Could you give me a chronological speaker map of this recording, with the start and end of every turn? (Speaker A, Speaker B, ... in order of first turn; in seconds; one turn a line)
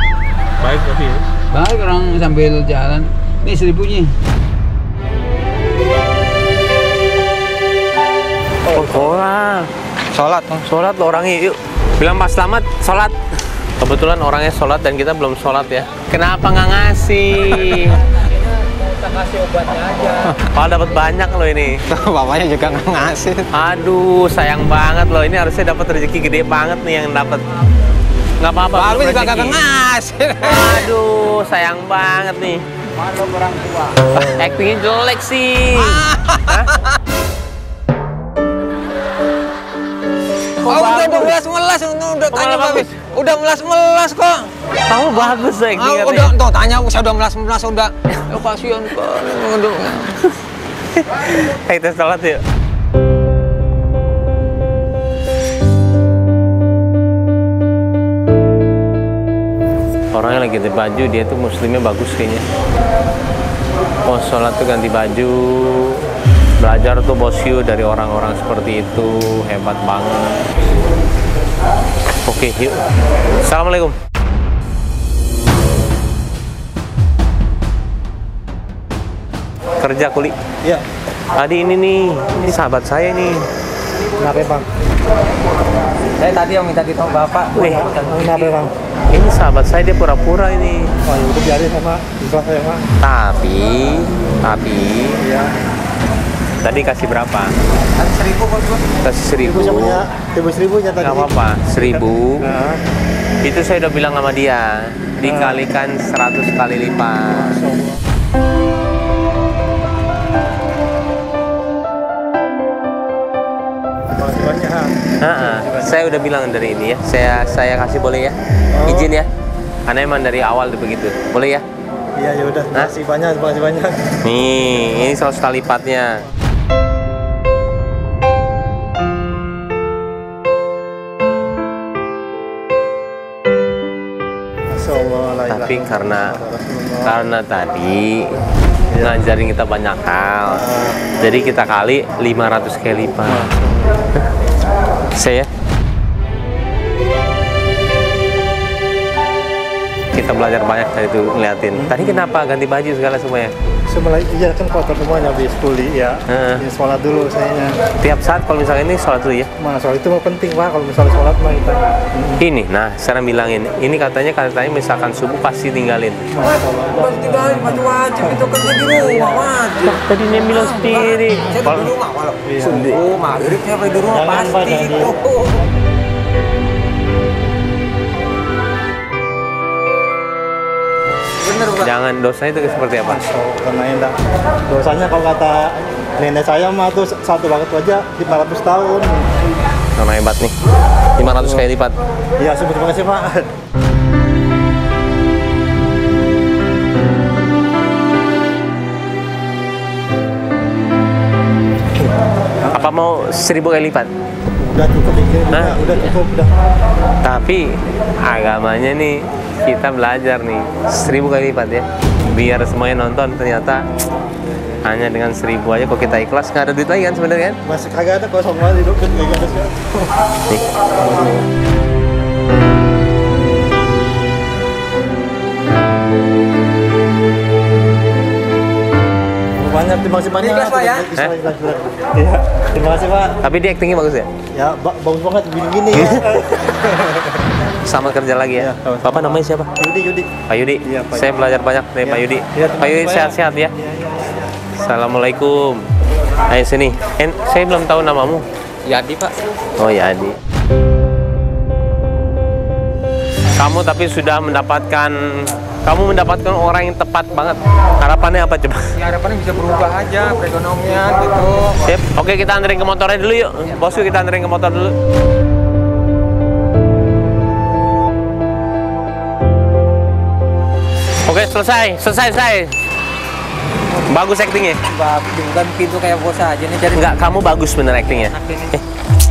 Speaker A: 0.6-1.2
Speaker B: 1.5-4.2
Speaker A: 8.6-9.7
Speaker C: 8.7-9.2
Speaker C: 10.1-10.7
Speaker A: 10.7-13.2
Speaker A: 13.8-18.1
Speaker A: 18.8-21.8
Speaker C: 21.9-23.5
Speaker A: 23.5-27.4
Speaker A: 28.4-29.6
Speaker C: 28.7-30.9
Speaker A: 30.4-32.6
Speaker C: 33.0-34.0
Speaker A: 34.1-36.7
Speaker C: 35.7-36.6
Speaker A: 40.6-41.4
Speaker C: 40.6-44.5
Speaker A: 42.3-43.0
Speaker A: 44.9-46.4
Speaker C: 45.1-50.2
Speaker A: 50.9-52.4
Speaker A: 60.1-62.5
Speaker A: 64.1-66.0
Speaker A: 66.6-70.4
Speaker A: 72.3-72.8
Speaker A: 73.4-74.0
Speaker A: 79.8-80.4
Speaker A: 81.4-83.5
Speaker D: 84.2-84.7
Speaker C: 86.2-88.6
Speaker A: 87.5-87.9
Speaker D: 87.6-88.7
Speaker A: 89.1-90.9
Speaker D: 91.1-92.9
Speaker A: 93.0-95.2
Speaker D: 95.2-95.5
Speaker A: 96.6-97.5
Speaker C: 97.9-98.9
Speaker A: 99.0-100.0
Speaker D: 99.4-102.8
Speaker A: 101.0-102.5
Speaker A: 103.4-107.5
Speaker D: 105.2-105.6
Speaker D: 107.3-108.0
Speaker D: 114.1-116.0
Speaker A: 115.2-119.3
Speaker D: 118.7-119.1
Speaker A: 119.9-121.6
Speaker D: 122.2-124.2
Speaker A: 124.2-126.2
Speaker D: 134.7-137.2
Speaker A: 135.5-136.3
Speaker A: 137.0-138.3
Speaker D: 138.9-139.3
Speaker A: 139.0-140.7
Speaker D: 140.5-141.1
Speaker A: 141.2-143.5
Speaker D: 143.3-143.9
Speaker A: 145.2-145.5
Speaker A: 150.1-153.5
Speaker D: 151.8-152.1
Speaker D: 153.9-157.8
Speaker A: 156.3-156.6
Speaker A: 158.0-159.5
Speaker D: 159.6-162.4
Speaker A: 162.4-166.3
Speaker D: 166.3-169.5
Speaker C: 166.9-170.0
Speaker A: 169.8-171.9
Speaker C: 170.5-175.6
Speaker D: 172.4-172.8
Speaker A: 172.7-173.0
Speaker D: 174.1-175.1
Speaker C: 181.4-181.9
Speaker A: 181.8-183.2
Speaker D: 183.0-184.1
Speaker D: 184.7-189.3
Speaker A: 190.0-190.5
Speaker A: 191.2-192.0
Speaker D: 191.3-191.6
Speaker D: 192.4-193.5
Speaker A: 202.7-204.1
Speaker D: 204.6-206.5
Speaker A: 205.5-206.2
Speaker A: 207.2-213.8
Speaker A: 214.8-217.6
Speaker D: 217.7-219.9
Speaker D: 221.0-221.4
Speaker D: 229.6-233.4
Speaker C: 230.4-231.1
Speaker A: 233.4-234.3
Speaker D: 234.5-237.4
Speaker A: 235.9-236.3
Speaker A: 237.8-239.7
Speaker D: 238.6-240.3
Speaker A: 240.5-243.7
Speaker D: 240.8-241.4
Speaker D: 242.0-244.4
Speaker A: 244.8-245.8
Speaker A: 246.5-248.4
Speaker C: 248.9-249.3
Speaker A: 249.8-250.4
Speaker A: 253.6-258.8
Speaker C: 259.0-261.8
Speaker A: 261.8-265.0
Speaker A: 271.3-272.7
Speaker A: 274.1-274.8
Speaker C: 274.8-278.8
Speaker A: 276.9-278.8